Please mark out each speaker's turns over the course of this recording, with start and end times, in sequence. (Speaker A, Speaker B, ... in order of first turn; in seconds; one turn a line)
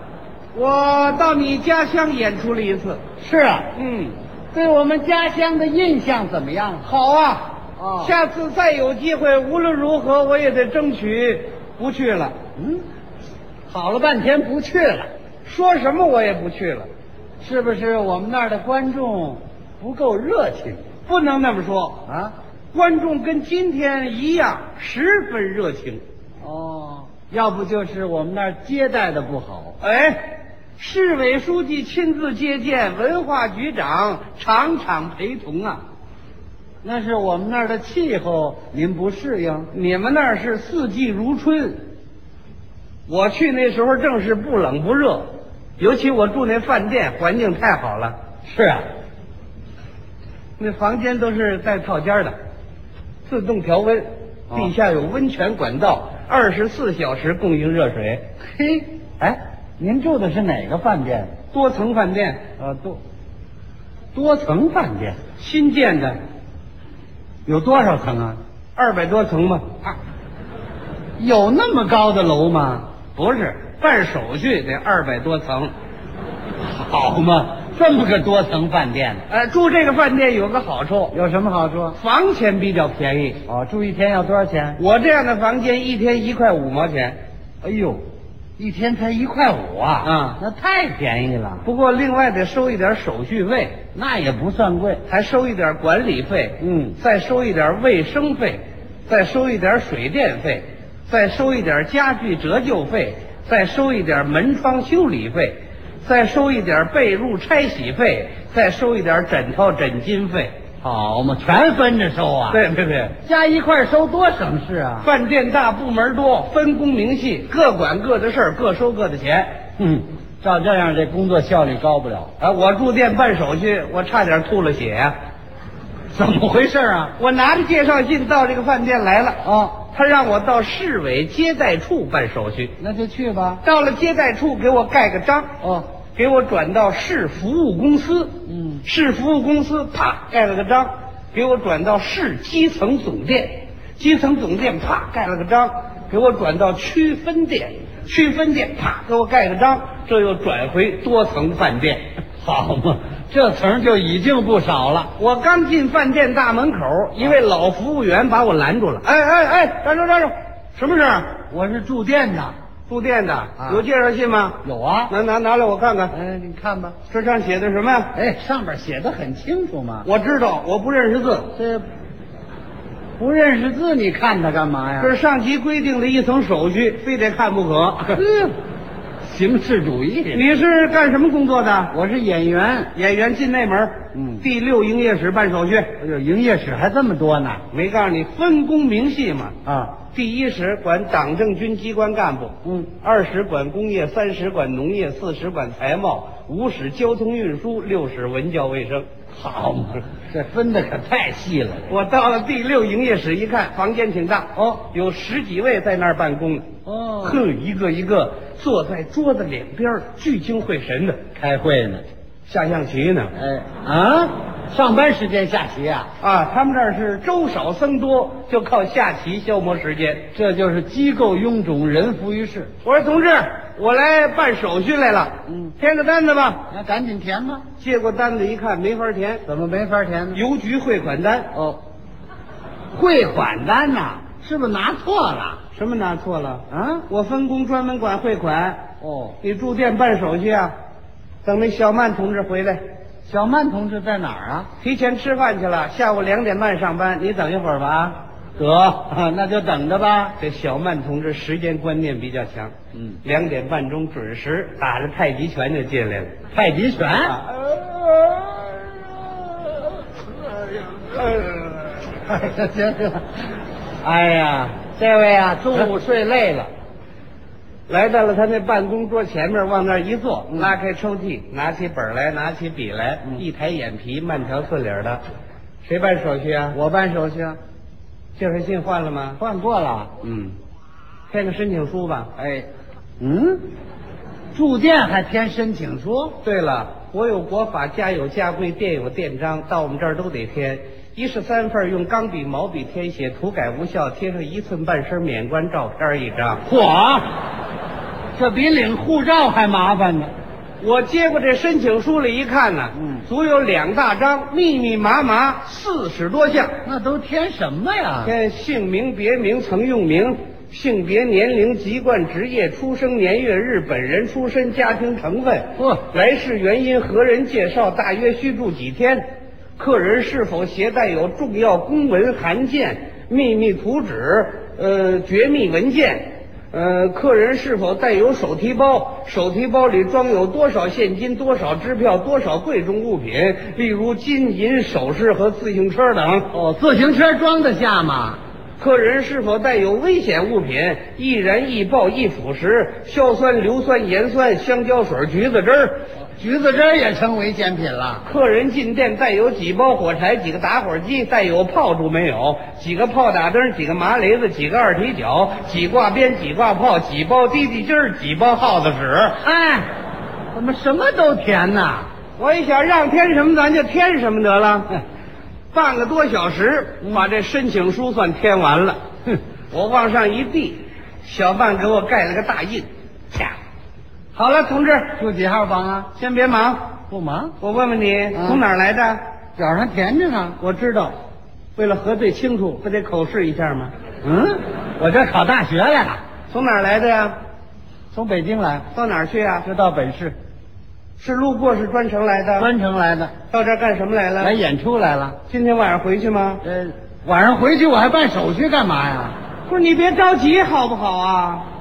Speaker A: 0.5-3.0
Speaker B: 3.2-3.7
Speaker A: 3.7-4.2
Speaker B: 4.5-6.9
Speaker A: 6.8-12.3
Speaker B: 7.8-8.1
Speaker B: 12.6-12.8
Speaker B: 13.7-15.1
Speaker A: 15.4-16.9
Speaker B: 17.4-20.8
Speaker A: 21.1-22.0
Speaker B: 22.1-22.3
Speaker A: 22.7-26.0
Speaker B: 26.4-29.8
Speaker A: 29.8-35.8
Speaker B: 36.8-39.7
Speaker A: 39.7-41.8
Speaker A: 43.1-48.1
Speaker B: 48.5-48.8
Speaker A: 50.6-52.3
Speaker A: 53.3-58.2
Speaker B: 58.5-61.3
Speaker A: 61.5-62.4
Speaker B: 62.6-63.0
Speaker B: 64.1-65.2
Speaker A: 65.4-66.2
Speaker B: 67.5-68.4
Speaker A: 68.8-69.8
Speaker B: 71.2-72.9
Speaker A: 73.1-75.7
Speaker B: 76.6-79.2
Speaker A: 79.3-81.1
Speaker B: 81.1-82.0
Speaker A: 82.0-83.4
Speaker B: 83.5-84.8
Speaker A: 84.8-87.2
Speaker B: 87.6-88.0
Speaker B: 88.6-91.7
Speaker A: 90.0-90.4
Speaker A: 91.6-93.8
Speaker B: 93.9-95.0
Speaker A: 95.0-110.5
Speaker B: 96.6-97.0
Speaker B: 110.8-112.6
Speaker A: 112.5-113.2
Speaker B: 113.2-115.1
Speaker A: 115.0-119.6
Speaker B: 119.8-122.3
Speaker A: 122.4-125.2
Speaker B: 126.1-127.1
Speaker A: 127.2-132.7
Speaker B: 129.4-129.8
Speaker B: 132.8-133.6
Speaker A: 133.6-135.5
Speaker A: 136.2-152.0
Speaker B: 138.5-138.8
Speaker B: 152.4-155.1
Speaker A: 155.2-161.4
Speaker B: 161.5-162.5
Speaker A: 162.9-166.1
Speaker B: 164.6-165.1
Speaker B: 166.1-167.0
Speaker A: 167.1-168.1
Speaker B: 168.1-170.1
Speaker A: 170.0-171.5
Speaker B: 171.6-171.8
Speaker B: 173.2-175.1
Speaker A: 175.0-178.2
Speaker B: 178.1-178.5
Speaker B: 179.2-180.4
Speaker A: 180.3-181.9
Speaker B: 181.9-182.9
Speaker A: 182.9-186.0
Speaker B: 184.1-184.4
Speaker B: 186.0-187.6
Speaker A: 187.7-189.6
Speaker B: 189.7-189.9
Speaker A: 190.1-199.1
Speaker B: 199.4-201.9
Speaker A: 201.9-206.7
Speaker B: 204.6-204.8
Speaker B: 206.8-207.4
Speaker A: 207.2-211.2
Speaker B: 211.4-212.0
Speaker A: 212.5-213.3
Speaker B: 213.3-216.1
Speaker A: 216.2-220.3
Speaker B: 220.3-222.7
Speaker A: 222.8-226.6
Speaker B: 225.5-225.7
Speaker B: 226.7-227.7
Speaker A: 227.8-229.4
Speaker B: 229.4-230.4
Speaker A: 230.3-231.5
Speaker B: 231.5-231.8
Speaker B: 232.9-235.6
Speaker A: 235.7-238.8
Speaker B: 236.7-237.1
Speaker B: 239.0-239.4
Speaker A: 239.4-240.7
Speaker A: 241.4-242.8
Speaker B: 243.3-244.7
Speaker A: 244.8-248.2
Speaker B: 248.6-250.4
Speaker A: 250.4-256.3
Speaker B: 256.5-257.4
Speaker A: 257.2-258.0
Speaker A: 261.1-261.5
Speaker B: 262.2-263.3
Speaker B: 264.0-266.7
Speaker A: 267.9-275.2
Speaker A: 275.8-276.8
Speaker B: 276.7-277.6
Speaker A: 278.4-279.4
Speaker B: 279.4-280.1
Speaker A: 280.2-280.5
Speaker A: 281.3-282.3
Speaker B: 282.4-282.7
Speaker B: 283.2-283.7
Speaker B: 284.5-286.4
Speaker A: 286.4-296.6
Speaker B: 296.6-297.3
Speaker B: 298.4-300.3
Speaker A: 300.8-306.8
Speaker B: 303.0-303.2
Speaker B: 306.8-308.3
Speaker A: 308.2-336.5
Speaker B: 315.8-316.0
Speaker B: 336.5-338.4
Speaker A: 338.8-346.1
Speaker B: 346.4-348.2
Speaker A: 348.2-359.4
Speaker B: 359.4-359.9
Speaker B: 360.5-362.1
Speaker A: 362.4-365.0
Speaker A: 365.7-369.0
Speaker A: 369.7-373.5
Speaker A: 374.3-375.2
Speaker B: 375.2-376.1
Speaker A: 376.1-376.9
Speaker B: 377.1-377.6
Speaker A: 377.6-379.2
Speaker B: 379.6-381.1
Speaker A: 381.8-383.9
Speaker B: 384.2-386.2
Speaker A: 386.5-387.4
Speaker B: 388.1-388.9
Speaker A: 388.9-389.7
Speaker B: 389.6-390.4
Speaker A: 391.2-392.7
Speaker B: 392.6-393.3
Speaker A: 393.5-394.6
Speaker B: 394.4-395.4
Speaker A: 395.5-396.6
Speaker B: 396.6-399.4
Speaker A: 399.7-401.6